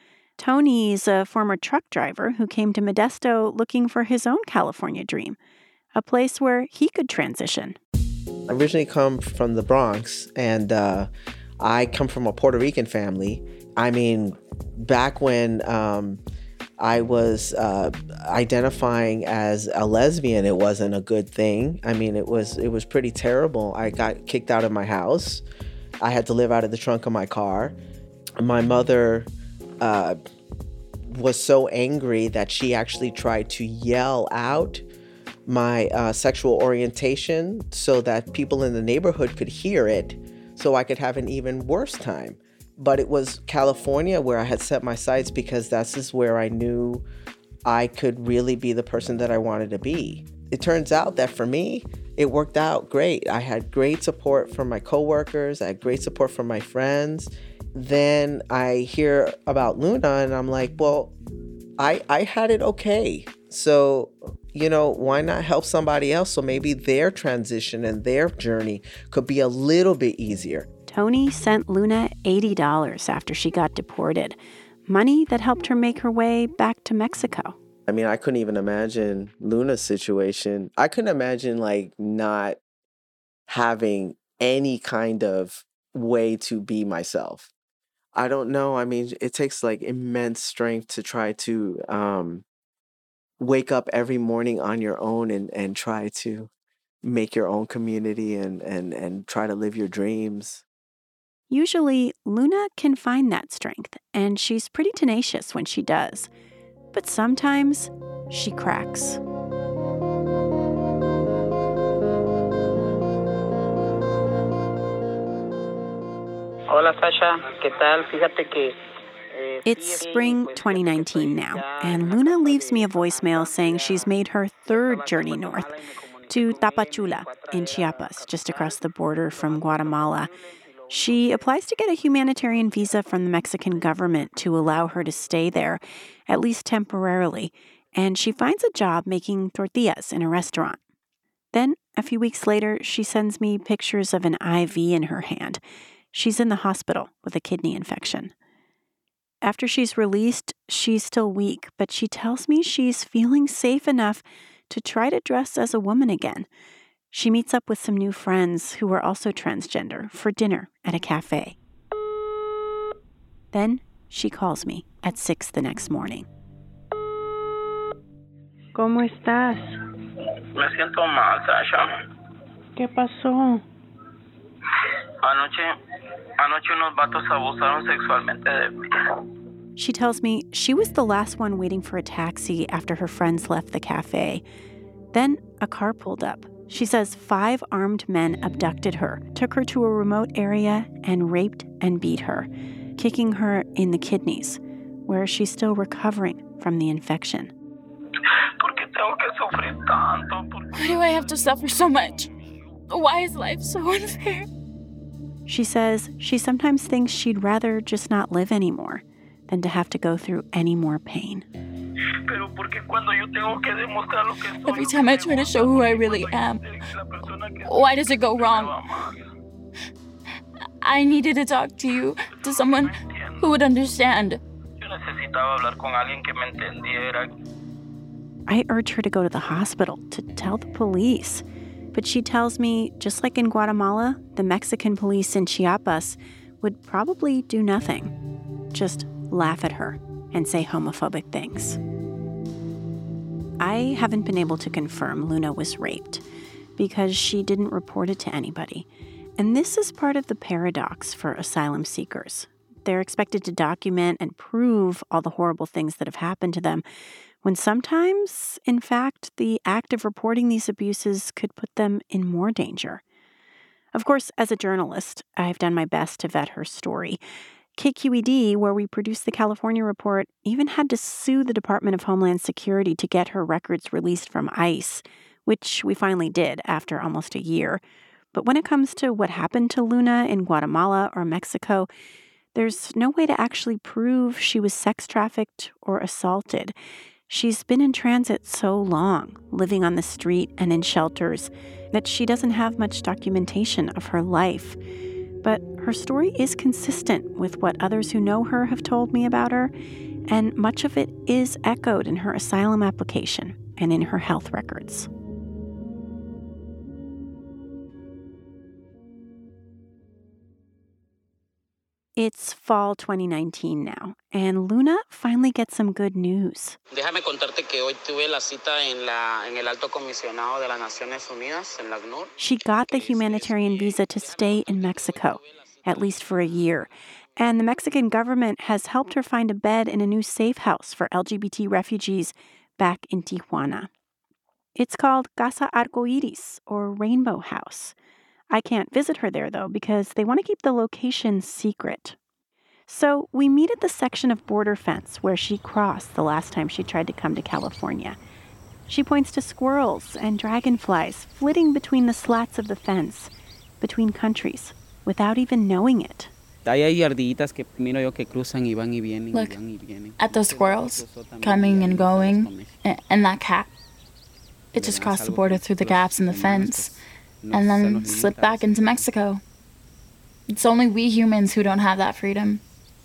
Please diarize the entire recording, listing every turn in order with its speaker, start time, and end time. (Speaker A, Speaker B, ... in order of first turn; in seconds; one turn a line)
Speaker A: 0.4-5.4
Speaker A: 6.0-7.8
Speaker B: 8.5-11.1
Speaker B: 11.6-16.2
Speaker B: 16.8-25.4
Speaker B: 26.0-27.8
Speaker B: 28.4-29.3
Speaker B: 29.8-30.2
Speaker B: 31.1-34.8
Speaker B: 35.5-47.0
Speaker B: 47.6-61.1
Speaker B: 61.8-70.7
Speaker A: 70.9-77.6
Speaker B: 77.9-82.6
Speaker B: 83.5-87.5
Speaker B: 88.1-92.4
Speaker B: 93.4-96.5
Speaker B: 97.0-100.6
Speaker A: 101.5-106.3
Speaker A: 106.9-109.2
Speaker C: 116.7-118.8
Speaker C: 119.3-123.9
Speaker A: 119.6-125.7
Speaker C: 125.2-128.6
Speaker A: 126.3-130.3
Speaker C: 129.5-130.3
Speaker A: 130.9-140.8
Speaker A: 141.5-145.6
Speaker A: 146.1-148.3
Speaker A: 149.4-156.5
Speaker A: 157.1-161.6
Speaker A: 163.5-166.3
Speaker C: 170.6-171.9
Speaker C: 175.2-175.8
Speaker C: 176.4-178.7
Speaker A: 179.8-184.4
Speaker A: 185.1-197.5
Speaker C: 198.6-200.6
Speaker D: 200.7-202.3
Speaker D: 202.9-204.5
Speaker A: 205.5-211.4
Speaker C: 212.3-214.2
Speaker D: 214.5-216.7
Speaker C: 217.1-217.7
Speaker D: 217.7-219.1
Speaker D: 220.8-224.4
Speaker C: 224.8-227.3
Speaker A: 228.5-238.1
Speaker A: 238.7-241.8
Speaker A: 243.6-246.2
Speaker A: 246.8-248.9
Speaker A: 249.4-256.8
Speaker A: 257.4-263.0
Speaker A: 263.9-267.2
Speaker A: 267.8-277.8
Speaker A: 278.3-281.9
Speaker A: 282.5-286.8
Speaker A: 287.3-294.8
Speaker A: 295.4-299.7
Speaker A: 300.3-305.1
Speaker A: 312.2-316.8
Speaker C: 316.9-322.3
Speaker A: 322.4-333.9
Speaker C: 325.0-325.9
Speaker A: 334.8-337.9
Speaker A: 338.5-342.1
Speaker A: 342.9-348.2
Speaker A: 348.9-356.3
Speaker E: 356.6-362.8
Speaker D: 359.3-359.6
Speaker D: 360.2-363.7
Speaker D: 364.7-367.0
Speaker E: 364.7-368.9
Speaker D: 367.5-369.4
Speaker D: 370.5-372.6